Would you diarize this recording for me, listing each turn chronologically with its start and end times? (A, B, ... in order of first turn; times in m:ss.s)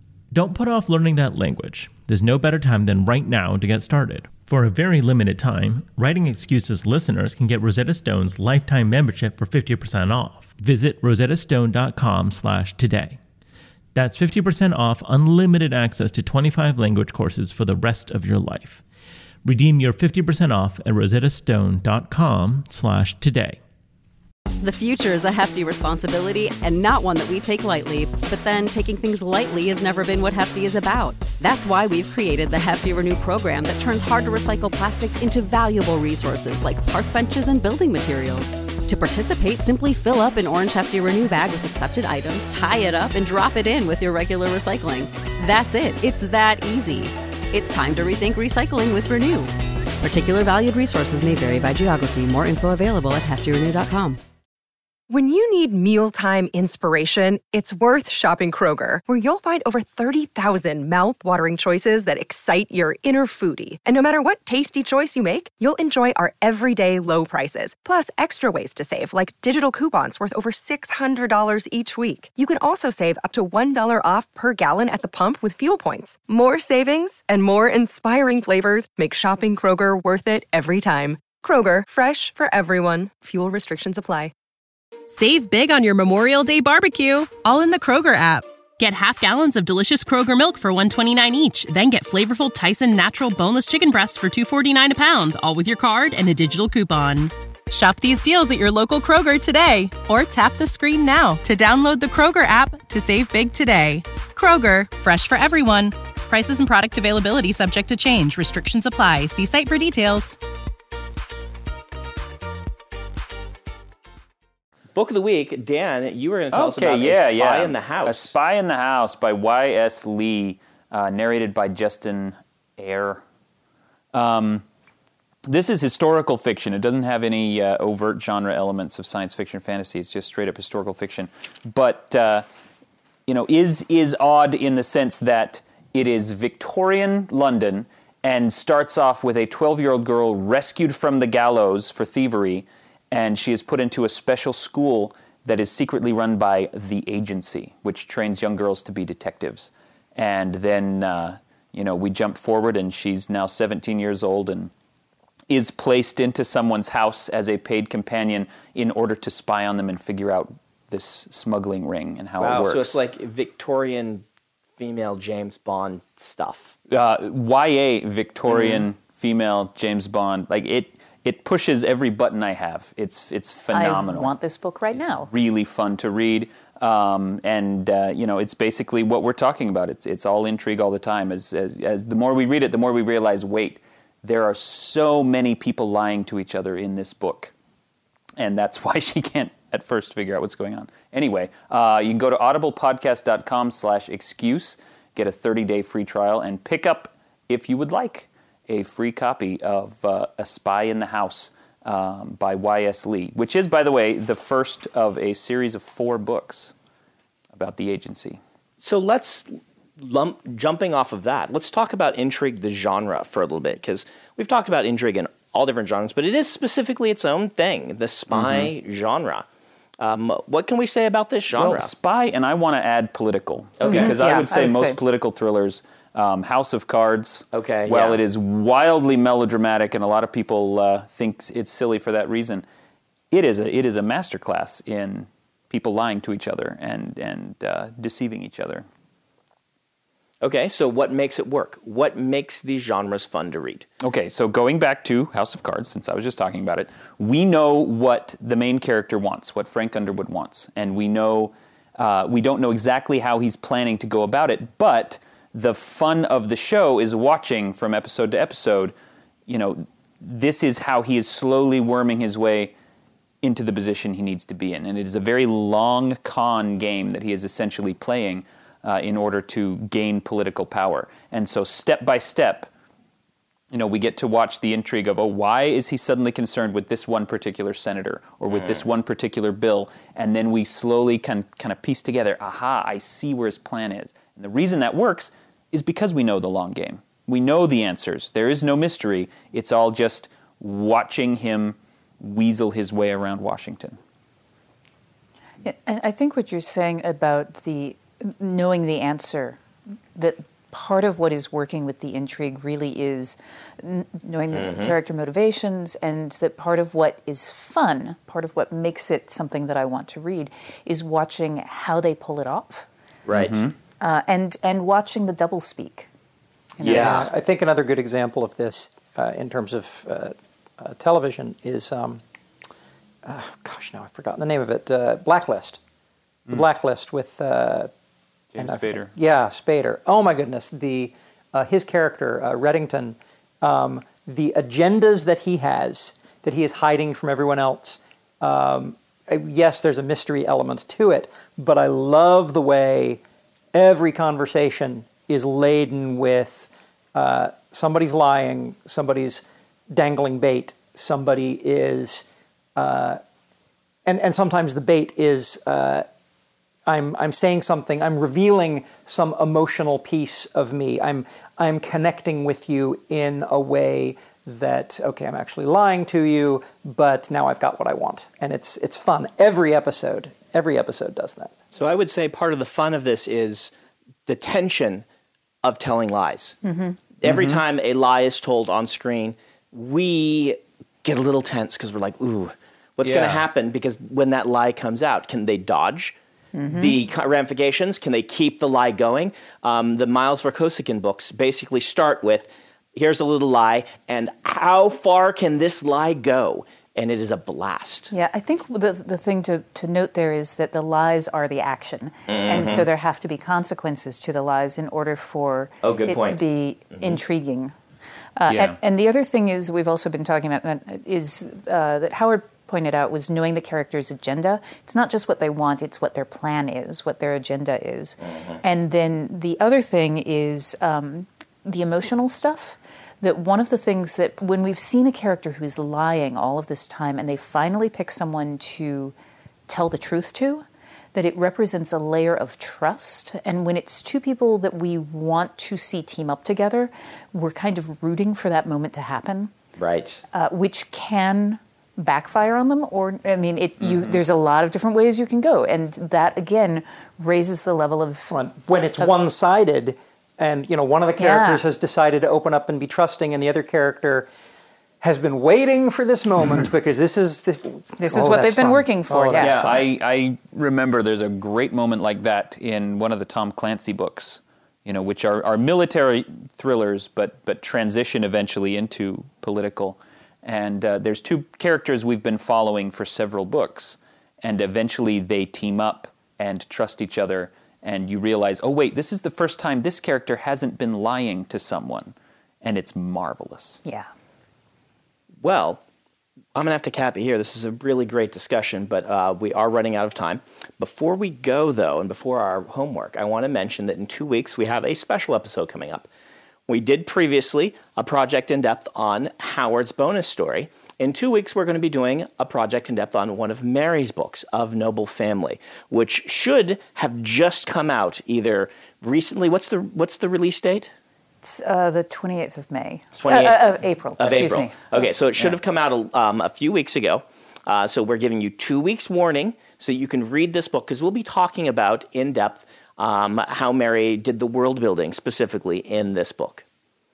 0:00.3-0:13.2 A
0:14.0-0:18.8 A
0:19.4-0:23.6 A
0:24.6-0:54.2 B
0:55.1-1:24.3 C
1:25.1-1:50.4 D
1:55.0-1:58.3 E
1:56.5-2:03.2 F
2:04.1-2:04.6 F
2:05.5-2:12.5 F
2:13.3-2:34.7 F
2:35.5-2:43.0 F
2:42.4-2:44.2 E
2:44.8-2:46.7 E
2:46.9-2:54.3 F
2:48.5-2:48.9 E
2:53.7-2:55.3 G
2:55.2-3:07.5 F
3:08.4-3:26.7 F
3:27.6-3:28.4 F
3:28.8-3:39.4 E
3:38.3-3:38.7 F
3:40.0-3:41.9 E
3:41.5-3:52.6 F
3:43.8-3:44.1 E
3:43.9-3:45.0 G
3:47.5-3:48.2 E
3:53.3-3:58.9 F
4:00.4-4:03.9 E
4:04.0-4:19.0 F
4:19.5-4:22.7 F
4:23.4-4:32.7 F
4:33.7-4:54.0 F
4:38.5-4:38.8 E
4:55.6-4:59.6 G
5:00.2-5:12.9 G
5:04.5-5:04.9 E
5:13.3-5:13.6 E
5:13.3-5:13.7 F
5:14.0-5:16.1 G
5:16.8-5:17.3 G
5:16.8-5:22.2 H
5:16.8-5:17.2 F
5:16.8-5:17.2 E
5:23.2-5:25.8 H
5:26.5-5:27.9 H
5:28.5-5:29.1 F
5:28.6-5:43.2 H
5:43.7-5:53.2 H
5:54.1-5:56.0 H
5:56.9-6:11.5 H
6:11.7-6:13.7 E
6:14.3-6:15.0 E
6:15.6-6:16.6 E
6:16.6-6:17.0 G
6:17.2-6:26.2 E
6:17.2-6:17.6 F
6:23.0-6:23.4 F
6:26.6-6:27.0 G
6:26.7-6:38.1 E
6:38.1-6:47.8 G
6:42.3-6:42.8 E
6:45.8-6:46.4 E
6:48.4-7:09.1 G
6:48.5-6:48.8 F
6:58.2-6:58.6 E
7:09.7-7:19.5 G
7:19.8-7:20.2 E
7:20.3-7:28.4 G
7:28.3-7:34.3 H
7:31.2-7:31.6 G
7:35.0-7:39.9 H
7:38.0-7:39.7 G
7:39.4-8:03.8 F
8:05.4-8:05.8 E
8:06.6-8:16.1 E
8:16.7-8:30.9 E
8:31.4-8:34.8 G
8:33.2-8:46.6 E